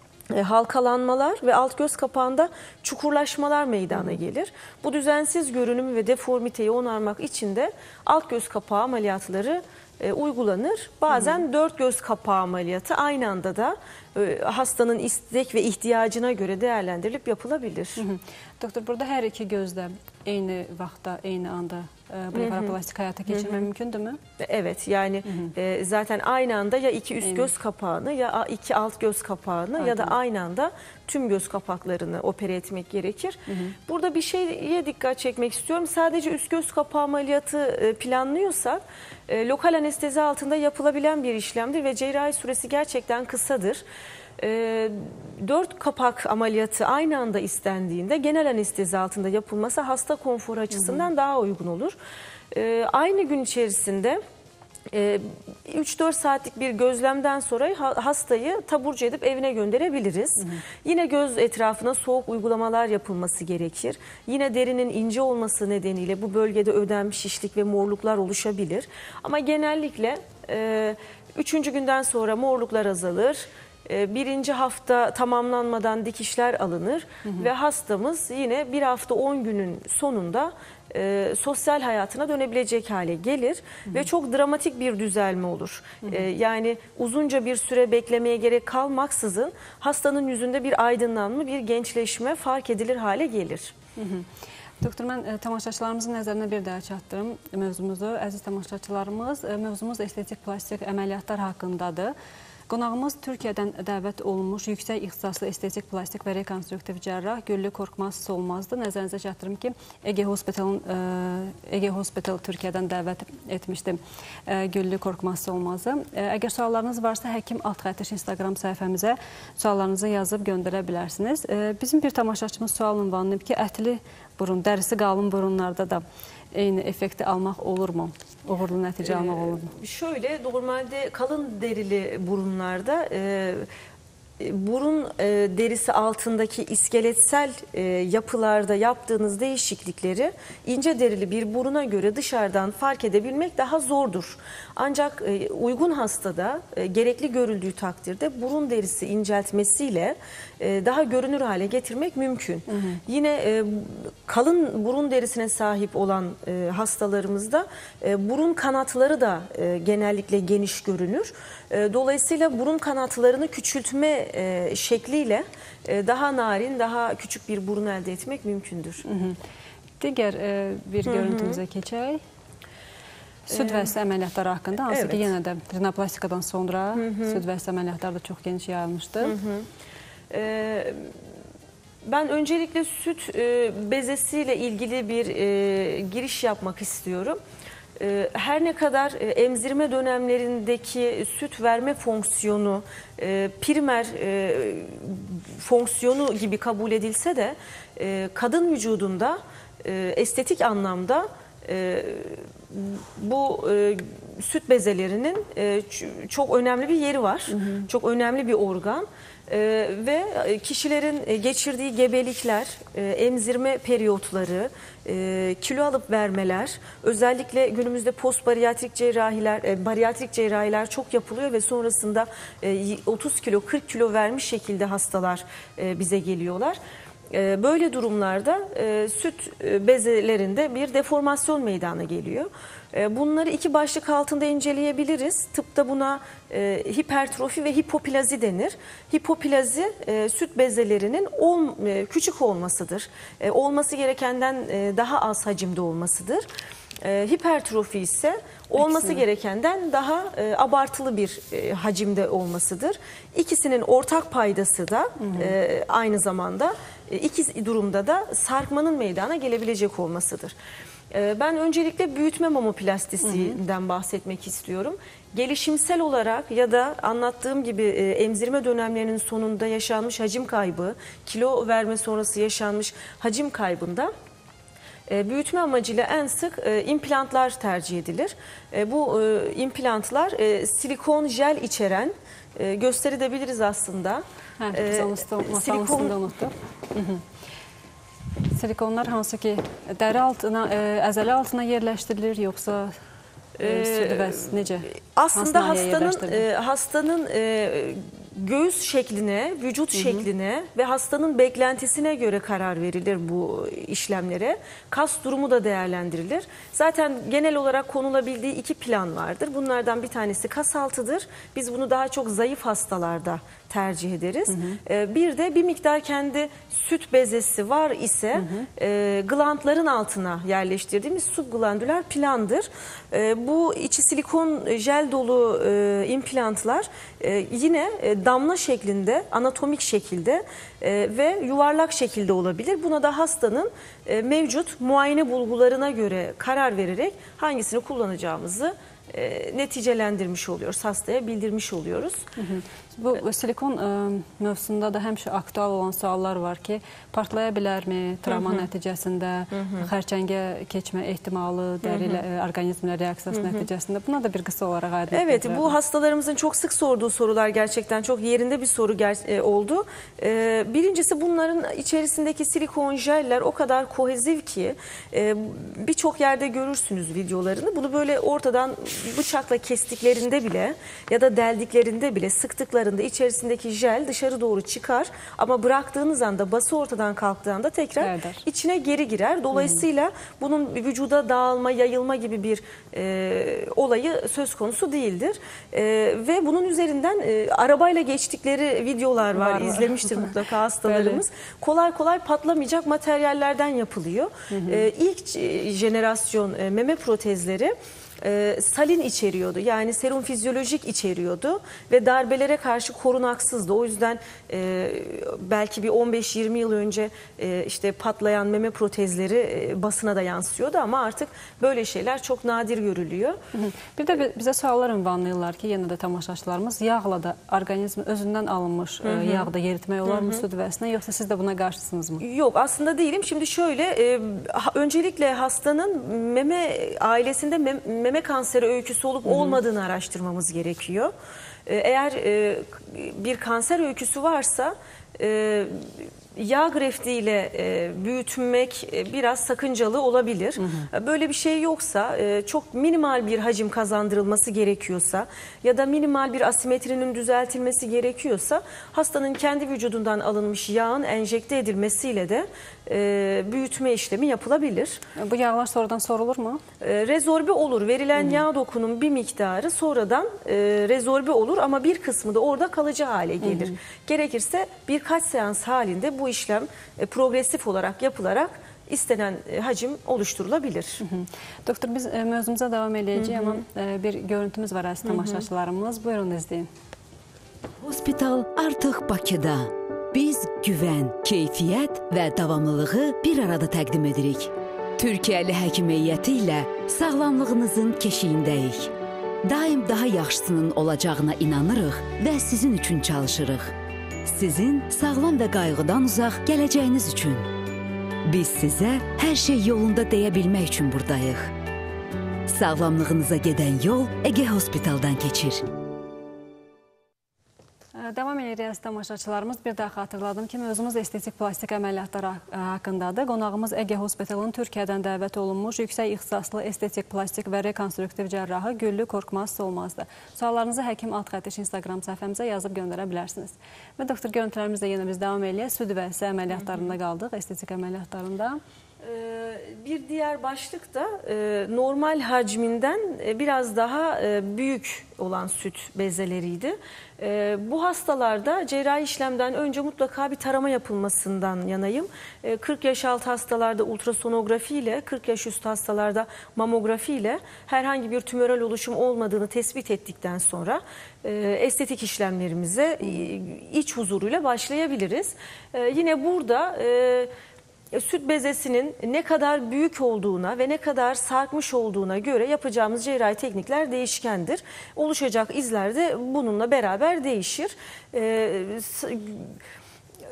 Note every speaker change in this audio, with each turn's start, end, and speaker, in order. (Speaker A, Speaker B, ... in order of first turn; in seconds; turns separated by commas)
Speaker A: 0.3-18.0, Speaker B: 11.1-11.4, Speaker B: 18.0-24.2, Speaker A: 22.3-22.8, Speaker A: 23.3-23.7, Speaker A: 24.4-43.8, Speaker B: 27.2-27.5, Speaker B: 29.8-30.1, Speaker B: 33.5-33.8, Speaker A: 44.4-52.0, Speaker A: 52.5-54.2, Speaker A: 54.9-93.8, Speaker B: 94.0-94.3, Speaker B: 94.8-102.1, Speaker B: 102.7-129.7, Speaker A: 129.0-133.7, Speaker A: 134.4-169.0, Speaker B: 152.7-153.0, Speaker B: 169.0-169.4, Speaker B: 170.0-172.2, Speaker A: 171.1-171.6, Speaker A: 173.5-173.9, Speaker B: 173.5-179.4, Speaker A: 174.9-175.3, Speaker A: 176.9-177.4, Speaker A: 179.2-179.7, Speaker A: 180.3-181.2, Speaker A: 182.1-187.4, Speaker A: 188.0-226.8, Speaker B: 207.6-207.9, Speaker A: 227.3-246.4, Speaker A: 247.0-260.6, Speaker B: 255.2-255.5, Speaker A: 261.1-274.1, Speaker B: 263.2-263.6, Speaker A: 275.1-286.2, Speaker B: 284.6-287.2, Speaker B: 288.5-293.0, Speaker A: 293.6-342.2, Speaker B: 293.6-296.5, Speaker B: 299.9-300.2, Speaker B: 314.5-314.8, Speaker B: 318.4-318.7, Speaker B: 342.4-355.8, Speaker A: 348.3-348.7, Speaker A: 349.5-349.9, Speaker A: 351.8-352.2, Speaker A: 353.3-353.7, Speaker A: 355.1-413.4, Speaker B: 378.0-378.4, Speaker B: 379.6-379.8, Speaker B: 389.4-391.2, Speaker B: 394.5-394.9, Speaker B: 413.5-422.2, Speaker A: 419.0-419.5, Speaker A: 420.1-420.4, Speaker A: 422.2-431.1, Speaker B: 429.3-429.6, Speaker A: 431.7-455.0, Speaker B: 440.6-440.9, Speaker B: 455.2-456.6, Speaker A: 456.8-471.0, Speaker B: 463.4-463.8, Speaker B: 471.0-476.7, Speaker A: 473.2-473.6, Speaker A: 475.1-475.4, Speaker C: 477.8-493.7, Speaker C: 494.2-497.5, Speaker C: 498.3-501.5, Speaker C: 502.5-505.6, Speaker B: 508.0-528.6, Speaker A: 526.5-526.9, Speaker A: 529.0-557.3, Speaker A: 557.9-569.6